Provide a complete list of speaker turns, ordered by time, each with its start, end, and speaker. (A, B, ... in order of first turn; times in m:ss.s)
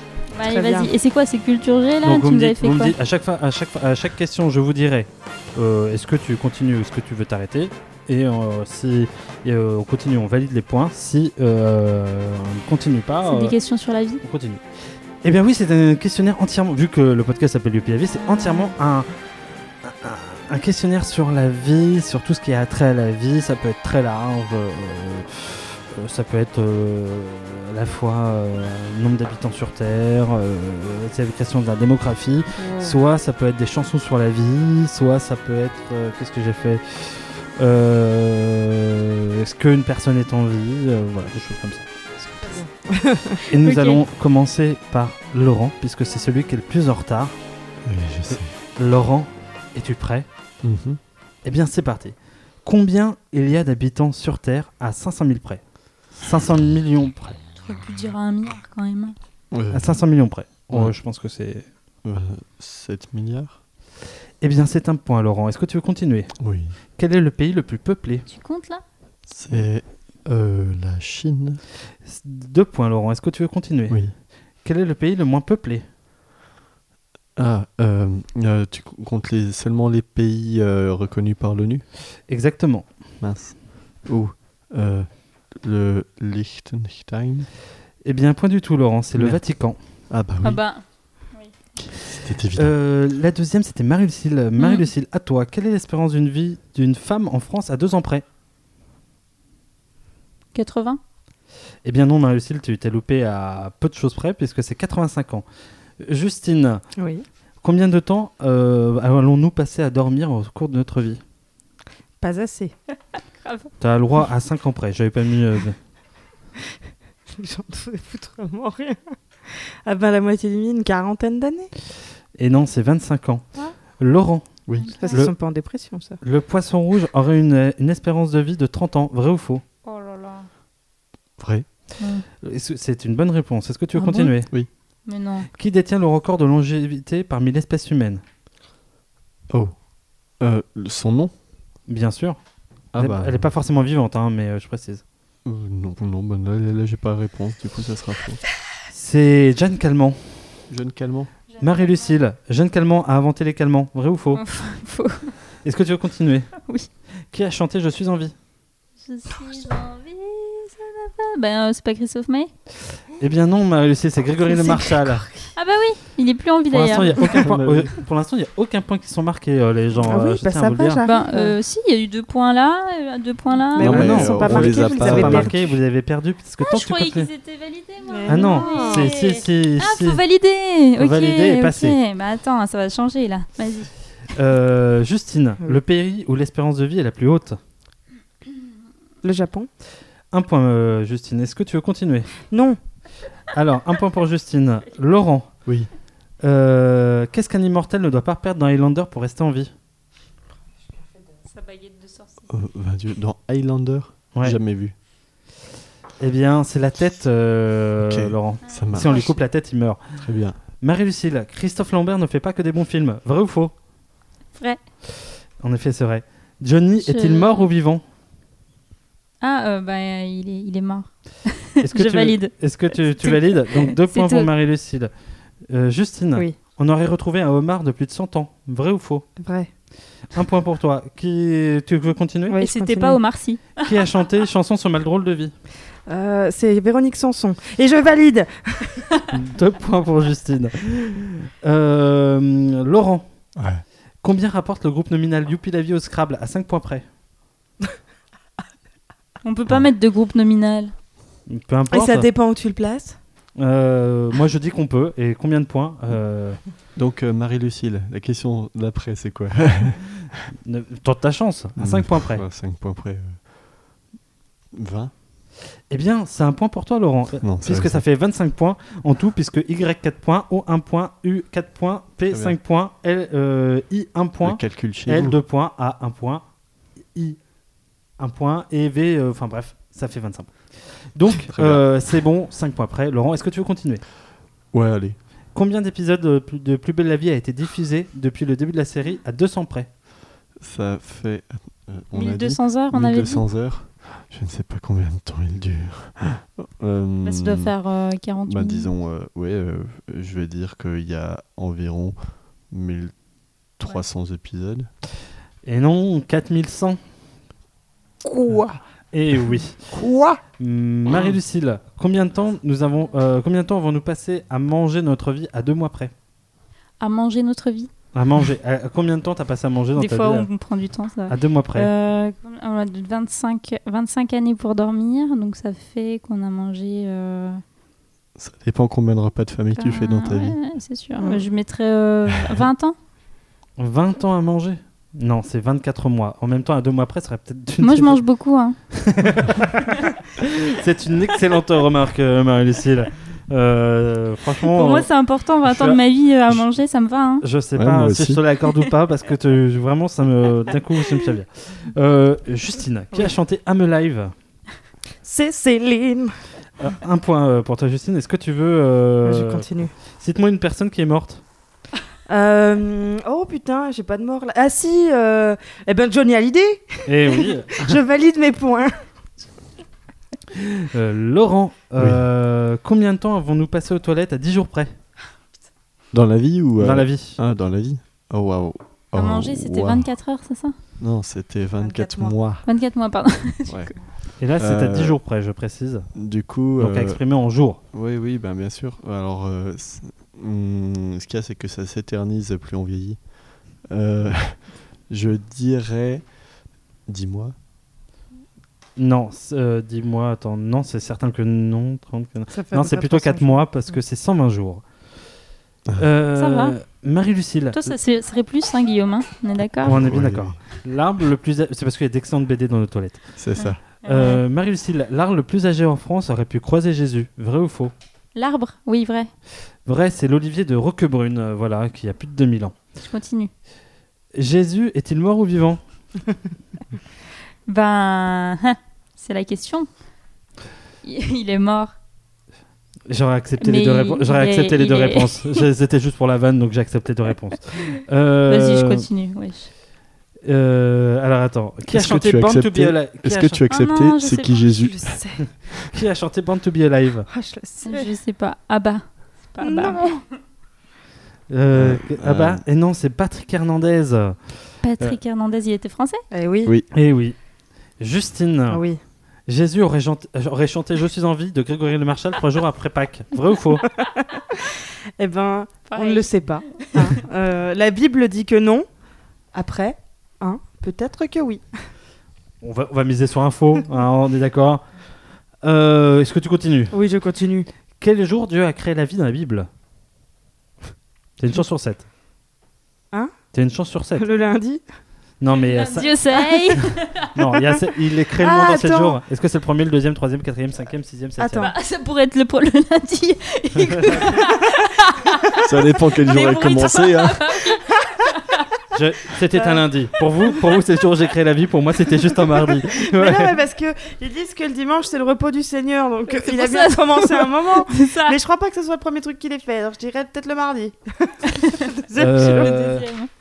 0:00.3-0:02.9 A
0:00.4-0:00.9 B
0:02.0-0:13.5 C
0:13.2-0:14.2 A
0:14.2-0:14.6 C
0:15.2-0:19.1 C
0:18.2-0:18.7 A
0:19.8-0:41.8 C
0:32.6-0:33.0 B
0:42.2-0:43.4 B
0:43.5-0:47.3 C
0:43.6-0:44.0 A
0:47.8-0:48.5 D
0:48.3-0:50.3 C
0:50.6-0:51.0 D
0:51.4-0:55.6 C
0:56.1-0:57.4 C
0:57.6-0:59.2 A
0:59.5-1:00.0 D
0:59.7-1:01.7 C
1:00.7-1:00.9 D
1:02.0-1:03.6 D
1:04.4-1:06.3 C
1:06.4-1:06.7 D
1:07.0-1:08.2 C
1:08.3-1:08.8 A
1:09.3-1:11.6 D
1:12.0-1:14.0 C
1:14.6-1:15.8 C
1:17.4-1:21.8 D
1:22.3-1:22.9 C
1:23.2-1:27.5 D
1:28.0-1:29.8 C
1:29.1-1:29.4 D
1:30.1-1:30.6 D
1:30.4-1:31.5 A
1:31.9-1:32.7 D
1:32.6-1:38.2 C
1:34.6-1:34.9 A
1:40.5-1:41.0 A
1:41.8-1:45.4 C
1:46.0-1:46.8 C
1:47.0-1:47.2 B
1:47.6-1:51.2 C
1:52.2-1:52.7 B
1:53.4-1:53.7 A
1:53.8-1:55.8 C
1:57.3-2:01.7 B
2:02.4-2:04.5 C
2:04.7-2:04.9 D
2:04.8-2:05.2 A
2:05.0-2:06.2 B
2:06.2-2:09.6 C
2:09.8-2:10.5 A
2:11.4-2:11.6 D
2:12.0-2:12.2 A
2:12.4-2:14.5 C
2:13.9-2:14.4 A
2:15.0-2:15.5 A
2:15.5-2:18.2 C
2:20.4-2:21.3 D
2:21.9-2:22.4 C
2:22.9-2:23.5 D
2:22.9-2:25.0 C
2:25.4-2:28.4 D
2:28.9-2:30.2 C
2:30.7-2:31.3 D
2:31.5-2:32.2 A
2:31.6-2:34.4 C
2:34.3-2:35.3 A
2:35.6-2:36.6 C
2:37.3-2:38.3 C
2:39.0-2:42.5 A
2:43.2-2:45.2 C
2:44.7-2:45.4 B
2:45.5-2:47.3 A
2:46.7-2:51.0 C
2:47.2-2:47.9 D
2:50.0-2:51.6 B
2:51.0-2:54.0 A
2:53.7-2:55.7 B
2:53.8-2:55.6 D
2:53.8-2:57.3 C
2:56.6-3:03.9 A
2:58.1-2:59.1 B
2:58.3-3:00.2 C
3:01.0-3:02.0 C
3:04.4-3:07.6 C
3:09.2-3:09.7 B
3:10.3-3:12.3 C
3:12.5-3:12.8 B
3:13.5-3:15.5 C
3:16.4-3:19.7 C
3:21.5-3:22.4 A
3:22.5-3:24.9 D
3:26.2-3:30.0 C
3:28.0-3:29.4 D
3:28.7-3:29.3 A
3:30.2-3:30.6 D
3:30.8-3:33.7 C
3:34.6-3:34.8 A
3:35.6-3:38.0 C
3:37.0-3:37.7 A
3:39.4-3:44.5 A
3:41.8-3:45.1 C
3:45.7-3:49.3 C
3:49.4-3:49.7 B
3:50.3-3:52.6 C
3:52.5-3:53.2 B
3:52.6-3:53.9 A
3:53.8-3:55.5 C
3:56.1-3:59.1 B
3:59.3-4:03.3 C
4:03.6-4:03.8 D
4:04.2-4:07.0 C
4:09.4-4:10.9 A
4:11.5-4:12.3 C
4:11.9-4:13.2 B
4:13.6-4:16.6 C
4:16.9-4:20.4 D
4:20.6-4:22.4 C
4:21.8-4:23.5 D
4:24.7-4:25.1 D
4:25.9-4:36.4 C
4:27.4-4:28.0 D
4:32.3-4:32.6 D
4:34.4-4:35.4 D
4:38.2-4:44.0 C
4:41.4-4:41.9 D
4:44.7-4:45.2 D
4:45.5-4:49.9 C
4:50.6-4:57.7 D
4:52.1-4:53.4 A
4:57.2-4:58.9 A
4:58.4-5:02.2 D
5:02.7-5:03.1 D
5:03.8-5:04.9 D
5:05.6-5:07.0 C
5:09.1-5:09.9 C
5:10.0-5:10.4 D
5:10.6-5:16.1 C
5:17.0-5:17.9 A
5:18.1-5:20.5 C
5:20.0-5:27.6 A
5:21.3-5:21.9 C
5:28.4-5:30.6 D
5:29.8-5:33.0 A
5:33.8-5:38.2 C
5:37.8-5:38.8 A
5:38.9-5:45.1 C
5:44.7-5:47.4 A
5:45.6-5:46.0 C
5:47.4-5:54.3 C
5:47.7-5:48.4 D
5:55.2-5:56.3 B
5:56.8-6:01.4 C
5:59.2-5:59.9 B
6:02.3-6:08.9 B
6:07.0-6:07.9 C
6:10.9-6:14.9 C
6:12.0-6:12.2 D
6:16.1-6:20.1 D
6:16.8-6:17.4 C
6:19.1-6:20.7 A
6:21.0-6:22.6 D
6:21.8-6:22.4 B
6:22.6-6:23.8 A
6:23.6-6:23.9 D
6:24.4-6:26.1 C
6:24.6-6:25.2 D
6:26.1-6:27.2 D
6:26.8-6:27.8 C
6:27.9-6:36.3 D
6:37.1-6:37.5 D
6:39.0-6:44.8 C
6:42.5-6:43.7 B
6:46.0-6:47.9 C
6:46.4-6:46.8 A
6:47.7-6:50.0 A
6:49.8-6:50.6 D
6:49.8-6:53.2 C
6:53.4-6:53.8 D
6:53.6-6:54.4 A
6:54.0-6:57.9 C
6:58.3-6:59.3 A
6:59.8-7:02.8 C
7:03.0-7:03.5 A
7:04.3-7:05.8 C
7:07.7-7:09.9 A
7:11.0-7:11.9 A
7:13.1-7:19.0 C
7:13.6-7:15.6 A
7:18.4-7:19.7 A
7:20.4-7:23.6 C
7:21.9-7:25.2 D
7:23.7-7:24.6 A
7:24.5-7:25.4 B
7:25.9-7:27.3 C
7:27.3-7:28.1 B
7:27.8-7:30.2 A
7:29.6-7:30.2 B
7:31.5-7:35.2 C
7:31.7-7:32.6 D
7:34.8-7:36.2 A
7:36.3-7:36.7 B
7:36.6-7:36.9 D
7:36.9-7:37.4 C
7:38.0-7:38.8 C
7:38.7-7:39.0 B
7:39.5-7:43.8 C
7:44.0-7:44.4 B
7:45.2-7:48.9 B
7:45.9-7:47.2 A
7:49.5-7:51.6 B
7:52.6-7:54.8 C
7:55.6-7:56.9 C
7:56.9-7:57.7 B
7:58.0-7:59.7 C
8:01.4-8:02.0 C
8:03.5-8:04.2 C
8:04.2-8:04.8 B
8:05.4-8:06.5 C
8:05.5-8:07.2 A
8:07.2-8:11.7 C
8:08.4-8:09.2 B
8:11.4-8:11.7 B
8:11.6-8:15.5 A
8:14.0-8:14.4 C
8:15.6-8:17.5 D
8:16.2-8:18.6 A
8:18.9-8:23.5 C
8:19.5-8:19.8 B
8:22.9-8:32.9 B
8:26.3-8:28.4 A
8:32.2-8:33.0 C
8:32.4-8:33.3 A